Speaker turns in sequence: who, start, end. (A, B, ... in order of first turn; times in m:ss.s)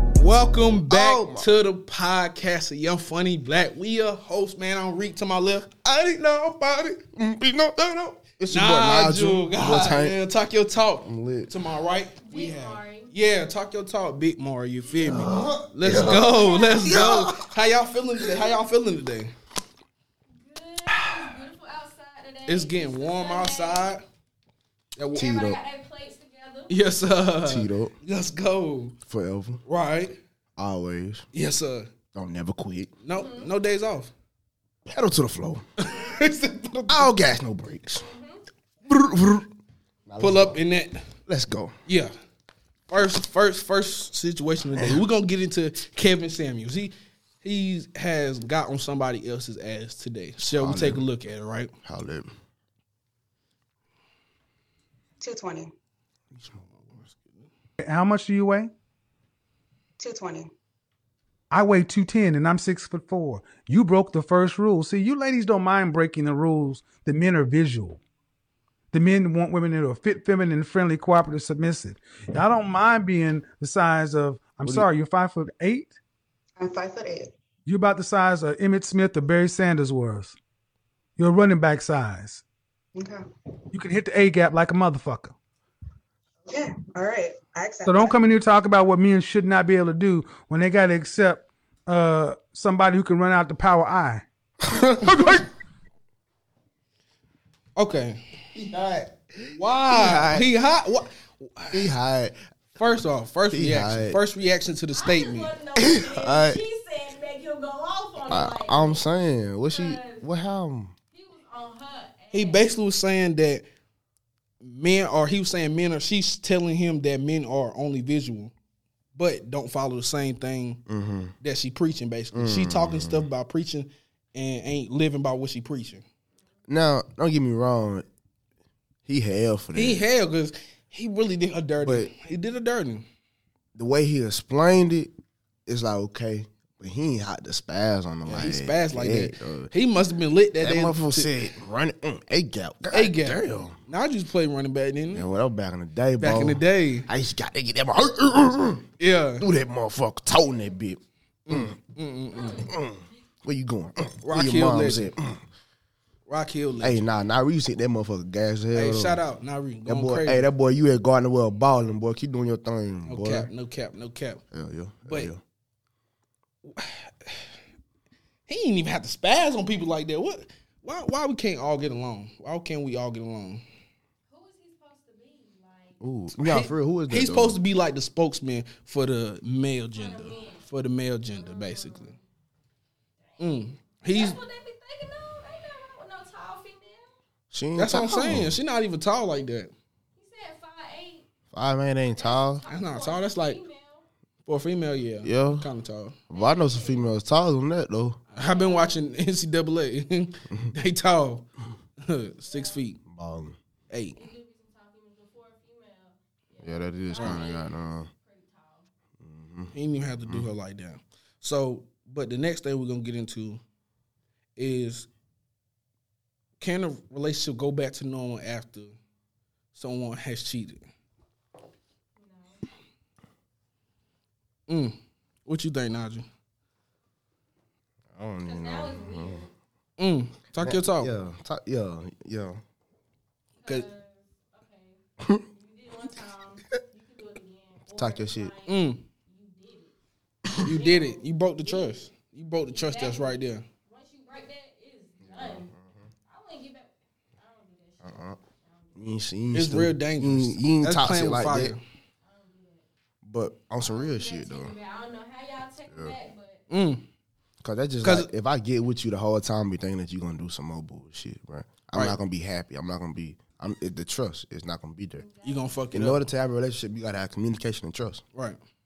0:00.1-0:05.7 A
0:00.9-0:01.5 B
0:05.8-0:10.2 B
0:08.5-0:19.3 A
0:11.0-0:11.6 B
0:12.2-0:13.1 C
0:15.0-0:17.5 B
0:16.2-0:17.0 C
0:20.4-0:23.9 C
0:22.5-0:24.0 A
0:25.0-0:25.3 A
0:25.1-0:26.7 C
0:25.2-0:25.6 B
0:26.7-0:29.0 A
0:27.4-0:27.9 B
0:29.1-0:29.6 B
0:29.7-0:30.2 A
0:30.6-0:31.3 B
0:31.3-0:31.9 A
0:32.1-0:32.9 B
0:33.0-0:34.1 A
0:33.1-0:33.5 C
0:34.9-0:35.6 B
0:35.8-0:37.1 A
0:36.9-0:38.1 B
0:38.0-0:38.4 C
0:38.9-0:39.5 B
0:40.1-0:40.6 B
0:40.2-0:41.0 A
0:41.3-0:41.8 B
0:42.9-0:51.7 A
0:44.7-0:45.0 B
0:50.4-0:51.1 B
0:51.8-0:52.3 B
0:55.2-0:55.7 D
0:56.3-0:56.7 B
0:56.7-0:57.5 A
0:57.8-0:58.7 E
1:00.0-1:00.5 D
1:01.5-1:08.0 E
1:08.9-1:16.0 E
1:16.6-1:17.3 D
1:17.7-1:20.4 E
1:21.2-1:22.4 E
1:23.0-1:23.2 D
1:23.7-1:25.4 E
1:26.5-1:28.2 D
1:27.8-1:34.2 E
1:34.8-1:35.4 B
1:37.8-1:38.2 A
1:38.5-1:40.5 B
1:39.6-1:41.9 A
1:41.7-1:42.4 B
1:42.8-1:45.6 A
1:43.5-1:44.2 B
1:45.0-1:49.0 C
1:45.8-1:46.6 B
1:48.3-1:51.0 B
1:49.7-1:50.2 C
1:51.1-1:52.6 C
1:52.3-1:53.6 A
1:54.6-1:58.5 A
1:59.2-2:00.8 A
2:00.9-2:01.3 B
2:01.4-2:06.0 A
2:02.3-2:03.3 B
2:06.7-2:08.1 B
2:09.1-2:10.0 B
2:09.8-2:13.0 A
2:11.8-2:12.1 B
2:13.8-2:15.1 B
2:15.7-2:19.7 B
2:18.2-2:21.4 A
2:20.6-2:23.8 B
2:22.9-2:25.3 A
2:25.1-2:31.8 B
2:26.2-2:27.1 A
2:29.0-2:29.5 A
2:31.5-2:32.7 A
2:32.4-2:32.7 C
2:32.6-2:35.4 B
2:34.2-2:35.1 A
2:36.3-2:37.1 A
2:36.8-2:39.2 B
2:38.7-2:40.5 A
2:39.9-2:43.5 B
2:43.1-2:44.4 A
2:44.5-2:45.4 B
2:45.0-2:45.3 A
2:46.6-2:47.5 A
2:48.5-2:53.6 A
2:54.3-2:56.0 C
2:56.0-2:57.6 B
2:56.4-3:02.2 A
3:00.0-3:00.6 C
3:01.3-3:02.2 C
3:03.3-3:07.1 C
3:03.4-3:04.4 A
3:07.5-3:08.6 B
3:07.8-3:09.7 A
3:10.2-3:11.2 C
3:11.5-3:12.6 B
3:12.2-3:14.0 C
3:12.7-3:13.6 A
3:14.5-3:16.2 A
3:15.2-3:15.7 B
3:16.3-3:18.2 B
3:16.3-3:17.1 C
3:18.3-3:21.5 A
3:18.4-3:19.1 C
3:22.0-3:23.0 A
3:22.5-3:22.8 C
3:23.1-3:23.6 B
3:23.9-3:24.2 A
3:24.2-3:28.9 C
3:26.6-3:28.1 B
3:27.1-3:27.4 A
3:29.2-3:29.7 B
3:29.7-3:33.6 A
3:34.6-3:35.1 A
3:36.6-3:39.0 A
3:39.8-3:40.9 A
3:42.2-3:42.7 C
3:44.7-3:46.3 A
3:48.1-3:49.5 B
3:48.4-3:49.5 C
3:50.0-3:51.1 A
3:50.6-3:52.6 B
3:53.6-3:59.9 C
3:58.0-3:58.5 B
3:58.7-3:59.0 A
4:00.6-4:02.1 C
4:00.6-4:03.6 A
4:02.7-4:05.7 C
4:05.2-4:06.1 B
4:06.3-4:09.1 C
4:08.0-4:08.4 B
4:09.0-4:11.8 B
4:09.5-4:11.8 A
4:12.2-4:12.8 C
4:13.2-4:14.8 B
4:13.8-4:16.6 C
4:16.7-4:17.0 A
4:17.6-4:25.3 B
4:18.0-4:18.3 A
4:25.2-4:25.9 C
4:25.4-4:26.2 A
4:25.9-4:28.2 B